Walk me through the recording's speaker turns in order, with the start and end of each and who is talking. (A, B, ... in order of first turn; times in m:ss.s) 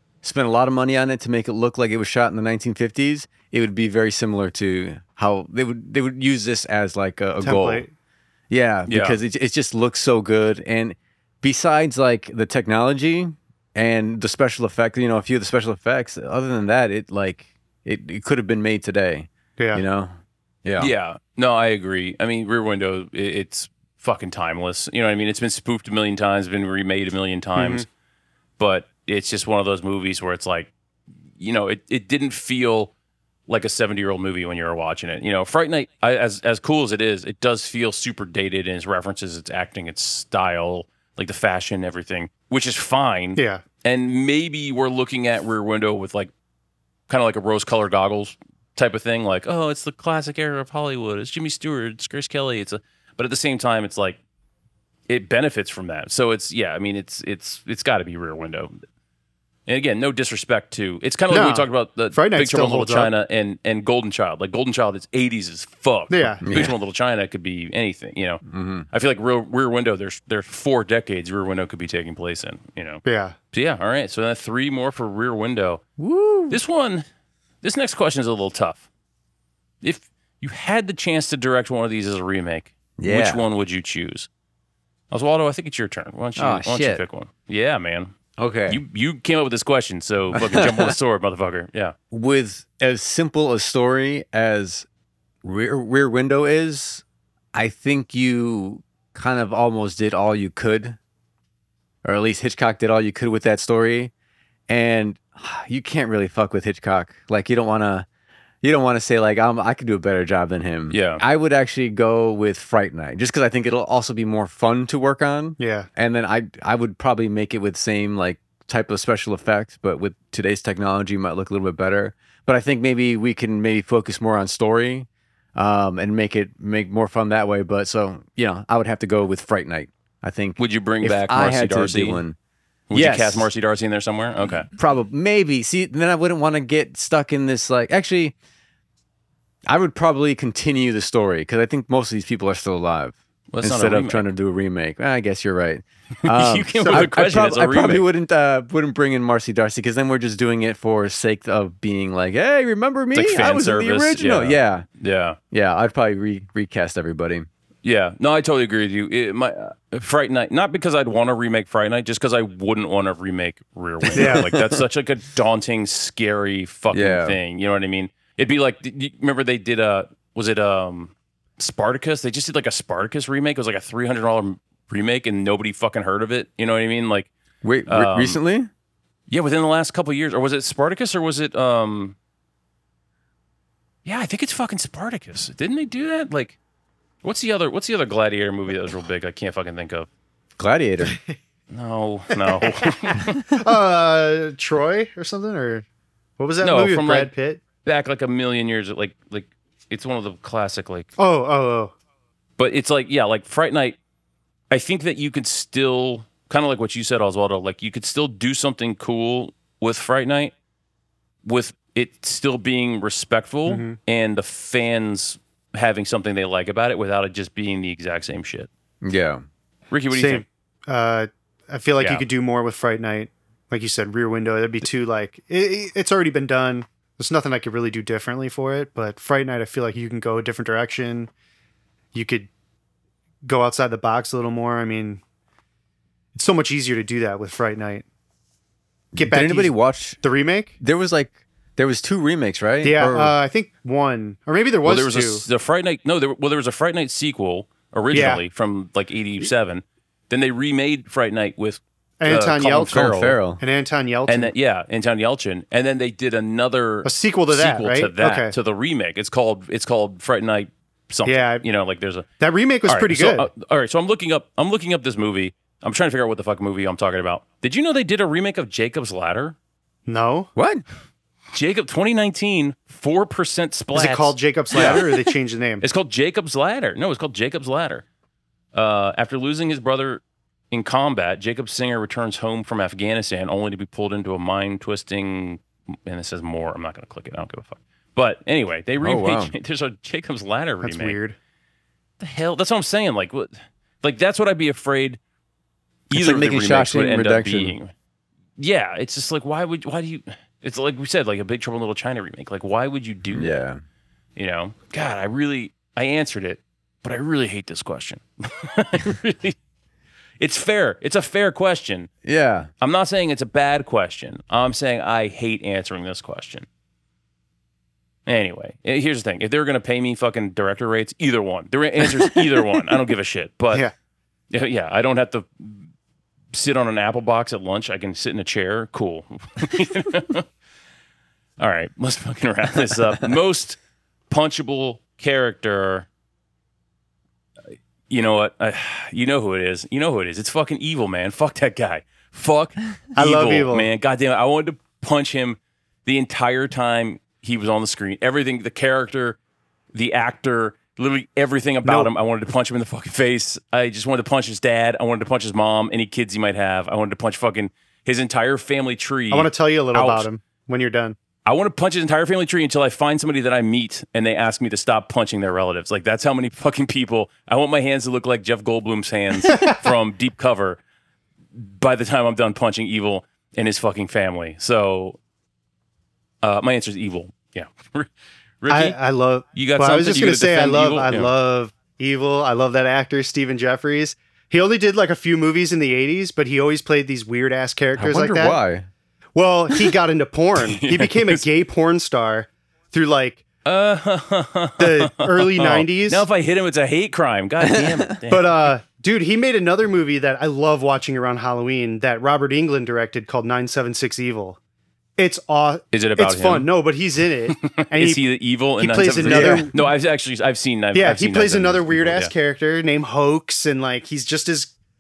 0:00.2-0:07.8 A
0:07.4-0:07.9 B
0:08.5-0:20.1 A
0:08.9-0:09.2 C
0:19.6-0:19.8 B
0:20.6-0:20.9 A
0:20.8-0:27.9 C
0:27.6-0:27.9 B
0:28.6-0:30.7 C
0:31.4-0:32.9 C
0:33.5-0:46.3 C
0:43.4-0:43.6 B
0:47.1-0:54.2 C
0:55.1-0:58.7 C
0:59.7-1:15.8 C
1:01.3-1:03.1 B
1:06.1-1:06.4 B
1:06.4-1:06.8 A
1:08.4-1:08.9 A
1:13.1-1:13.4 B
1:16.0-1:16.6 A
1:16.5-1:17.0 C
1:17.6-1:18.9 C
1:19.8-1:24.3 C
1:23.0-1:23.4 A
1:25.1-1:28.2 C
1:26.4-1:27.0 A
1:28.4-1:28.8 A
1:28.7-1:32.0 C
1:30.3-1:30.9 A
1:32.1-1:34.9 A
1:35.4-1:41.0 A
1:42.0-1:44.1 A
1:44.7-1:48.1 A
1:48.6-2:12.4 A
1:50.9-1:51.2 C
1:55.6-1:55.9 B
2:10.6-2:12.2 C
2:12.9-2:14.7 C
2:12.9-2:13.5 A
2:14.8-2:18.3 A
2:19.7-2:34.9 A
2:23.5-2:24.2 C
2:26.3-2:28.0 C
2:33.1-2:35.4 C
2:35.5-2:37.5 A
2:37.8-2:57.3 C
2:44.0-2:44.8 A
2:44.2-2:44.5 B
2:46.9-2:47.4 A
2:57.6-2:58.7 A
2:57.9-2:58.4 C
2:59.3-3:02.2 C
3:04.0-3:06.6 C
3:07.2-3:10.1 C
3:10.6-3:11.2 A
3:11.1-3:11.4 B
3:11.7-3:13.5 C
3:12.5-3:15.8 B
3:16.4-3:17.6 B
3:16.6-3:17.3 C
3:17.8-3:21.1 C
3:21.2-3:21.9 B
3:22.6-3:24.0 C
3:24.7-3:30.5 C
3:31.4-3:38.7 C
3:33.7-3:34.0 B
3:39.0-3:39.4 A
3:39.9-3:40.4 C
3:40.1-3:51.3 B
3:42.0-3:42.2 C
3:52.1-3:52.5 B
3:53.4-3:55.2 B
3:56.4-3:58.0 B
3:59.1-4:00.2 A
3:59.2-4:00.7 B
4:00.8-4:03.3 A
4:02.8-4:05.5 B
4:04.8-4:13.4 C
4:08.1-4:08.4 B
4:12.2-4:14.5 B
4:12.9-4:13.6 A
4:14.3-4:22.3 C
4:17.0-4:18.6 B
4:21.3-4:21.6 B
4:22.4-4:23.5 B
4:22.9-4:29.6 C
4:30.1-4:30.5 B
4:30.6-4:30.8 A
4:31.5-4:35.1 C
4:33.9-4:35.8 B
4:35.8-4:38.0 C
4:38.7-4:51.2 C
4:49.0-4:49.5 A
4:50.8-4:51.4 B
4:52.2-4:55.2 C
4:56.1-4:57.9 C
4:56.1-4:57.8 A
4:58.6-5:03.6 C
5:03.3-5:03.8 A
5:04.4-5:09.6 C
5:10.4-5:12.1 C
5:12.2-5:12.7 A
5:12.8-5:16.7 C
5:18.3-5:23.8 C
5:24.5-5:25.9 C
5:26.5-5:30.5 C
5:31.6-5:33.8 C
5:34.3-5:36.1 C
5:38.1-5:49.4 C
5:43.2-5:43.9 B
5:49.9-6:00.3 C
5:51.8-5:52.1 B
5:59.3-6:01.2 B
6:01.4-6:10.8 C
6:09.5-6:09.8 B
6:11.6-6:15.2 C
6:16.4-6:19.0 C
6:18.7-6:28.6 B
6:19.6-6:21.3 C
6:28.0-6:28.9 A
6:29.4-6:33.4 B
6:30.6-6:31.4 C
6:33.6-6:38.7 C
6:34.8-6:36.2 B
6:37.6-6:38.0 A
6:38.3-6:44.6 B
6:45.2-6:48.2 B
6:45.9-6:46.7 C
6:47.5-6:52.3 C
6:48.8-6:49.9 B
6:49.2-6:49.7 A
6:50.9-6:54.7 B